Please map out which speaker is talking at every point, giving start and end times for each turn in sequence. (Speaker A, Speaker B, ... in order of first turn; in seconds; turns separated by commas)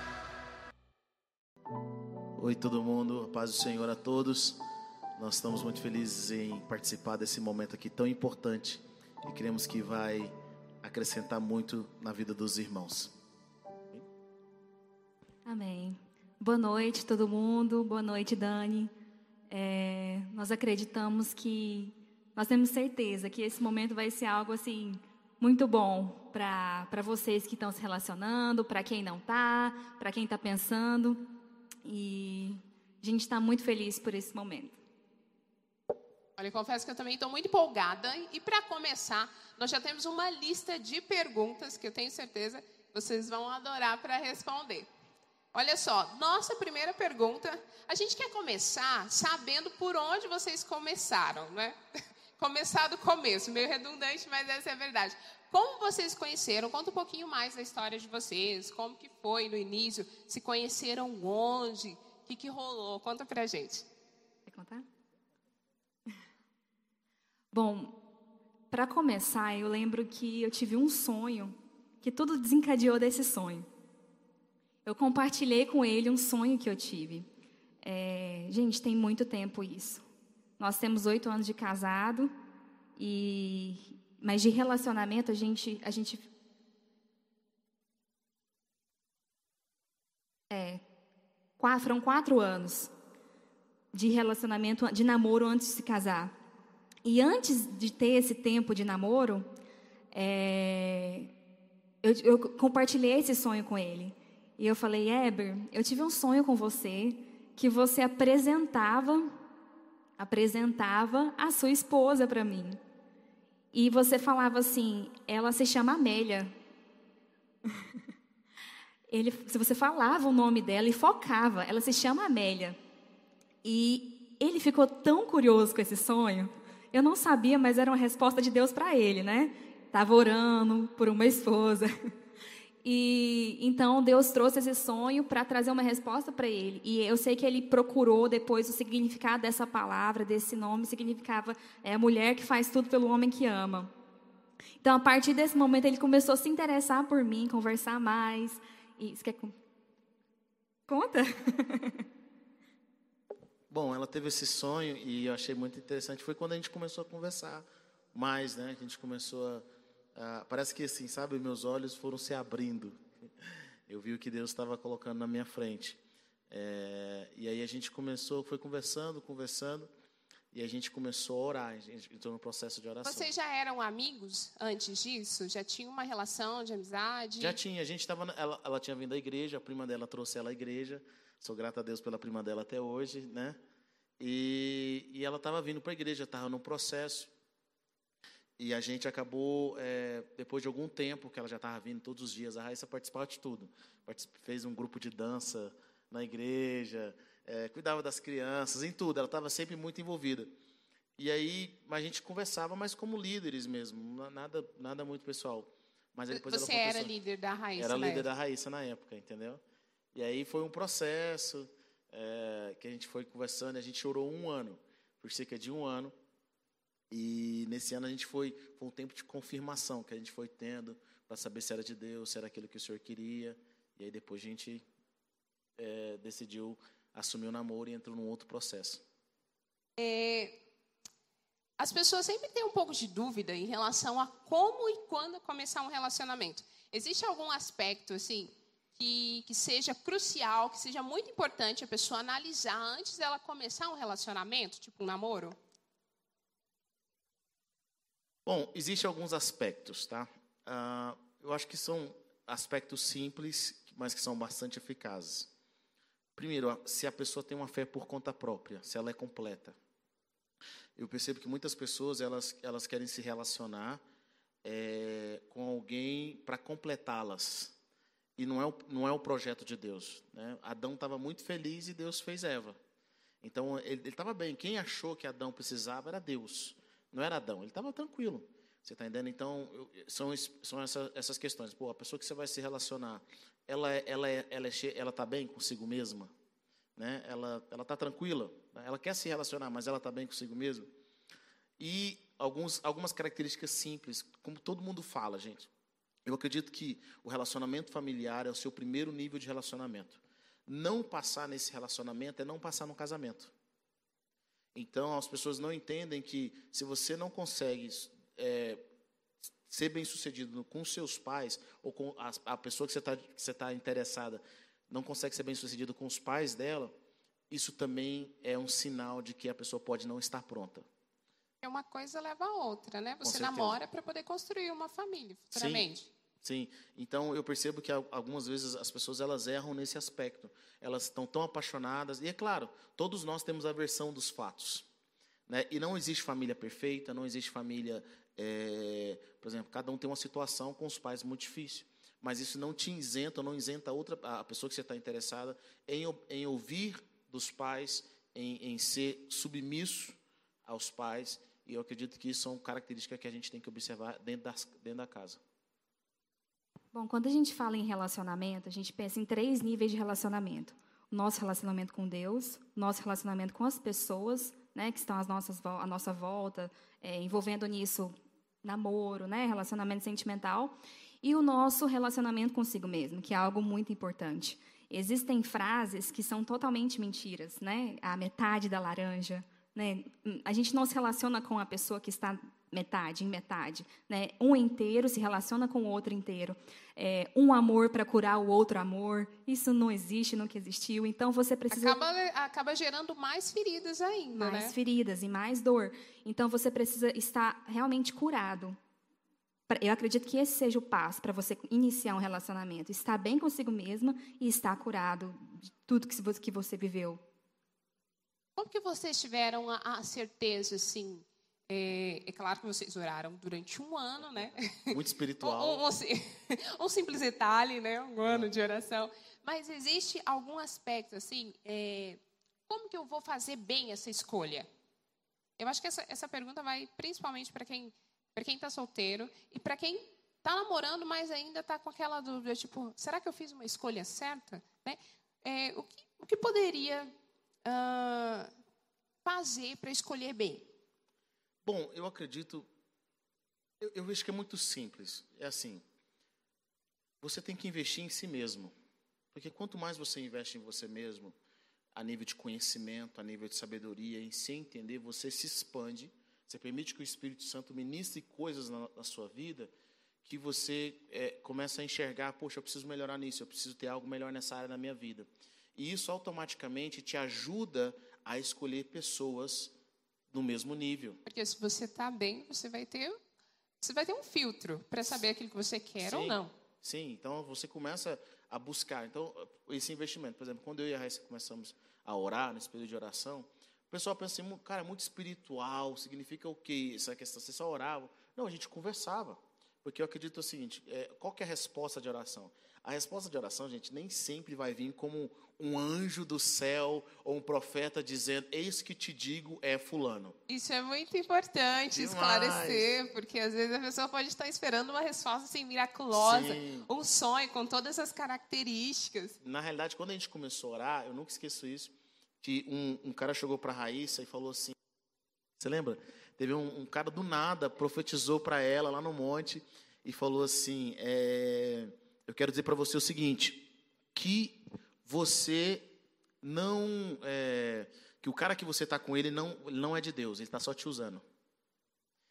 Speaker A: 2.4-4.6, Speaker A: 5.2-13.1, Speaker B: 15.5-18.9, Speaker B: 19.5-34.8, Speaker C: 36.4-44.9, Speaker C: 45.5-51.8, Speaker C: 52.4-63.9, Speaker B: 64.5-64.9, Speaker B: 67.5-68.0, Speaker B: 68.7-73.7, Speaker B: 74.8-77.3, Speaker B: 77.8-80.0, Speaker B: 80.6-82.3, Speaker B: 83.0-86.3, Speaker B: 90.5-90.8, Speaker B: 91.6-92.9, Speaker B: 93.9-96.3, Speaker B: 97.0-99.5, Speaker B: 100.1-101.3, Speaker B: 102.0-109.4, Speaker B: 110.2-112.8, Speaker B: 113.7-116.5, Speaker B: 119.1-122.8, Speaker B: 123.6-131.9, Speaker B: 132.8-143.9, Speaker B: 144.8-149.6, Speaker B: 150.9-152.1, Speaker A: 153.7-163.0, Speaker A: 163.9-166.0, Speaker A: 166.5-169.9, Speaker A: 170.5-173.3, Speaker C: 173.0-177.6, Speaker A: 177.4-183.6, Speaker A: 184.2-187.3, Speaker A: 188.6-200.5, Speaker A: 201.2-207.1, Speaker C: 206.3-208.3, Speaker A: 207.8-209.6, Speaker A: 210.1-216.1, Speaker A: 217.1-224.8, Speaker A: 225.8-229.0, Speaker C: 230.0-230.6, Speaker C: 231.8-245.6, Speaker A: 248.5-255.5, Speaker A: 256.4-259.8, Speaker A: 261.0-264.0, Speaker A: 264.6-267.7, Speaker A: 268.4-272.8, Speaker A: 273.4-286.3, Speaker A: 287.0-290.9, Speaker A: 291.8-295.7, Speaker A: 296.2-303.5, Speaker A: 304.8-308.8, Speaker A: 309.7-316.9, Speaker A: 317.5-320.9, Speaker C: 321.6-326.1, Speaker A: 323.2-323.8, Speaker A: 325.5-325.9, Speaker A: 326.4-334.9, Speaker A: 335.5-355.4, Speaker B: 356.9-392.0, Speaker C: 391.7-394.8, Speaker B: 394.4-398.8, Speaker B: 399.7-407.2, Speaker C: 408.6-424.7, Speaker A: 414.2-415.8, Speaker A: 418.2-418.5, Speaker C: 425.6-437.1, Speaker C: 437.6-438.5, Speaker C: 439.2-440.7, Speaker A: 441.6-442.7, Speaker A: 443.8-445.8, Speaker A: 447.2-448.7, Speaker A: 449.3-451.4, Speaker A: 451.9-459.7, Speaker A: 460.2-469.7, Speaker A: 470.3-471.2, Speaker C: 471.3-473.2, Speaker C: 473.8-476.5, Speaker A: 476.0-500.4, Speaker C: 500.5-509.4, Speaker A: 501.9-502.9, Speaker A: 506.1-506.9, Speaker A: 509.4-514.8, Speaker A: 515.6-525.9, Speaker A: 526.4-531.2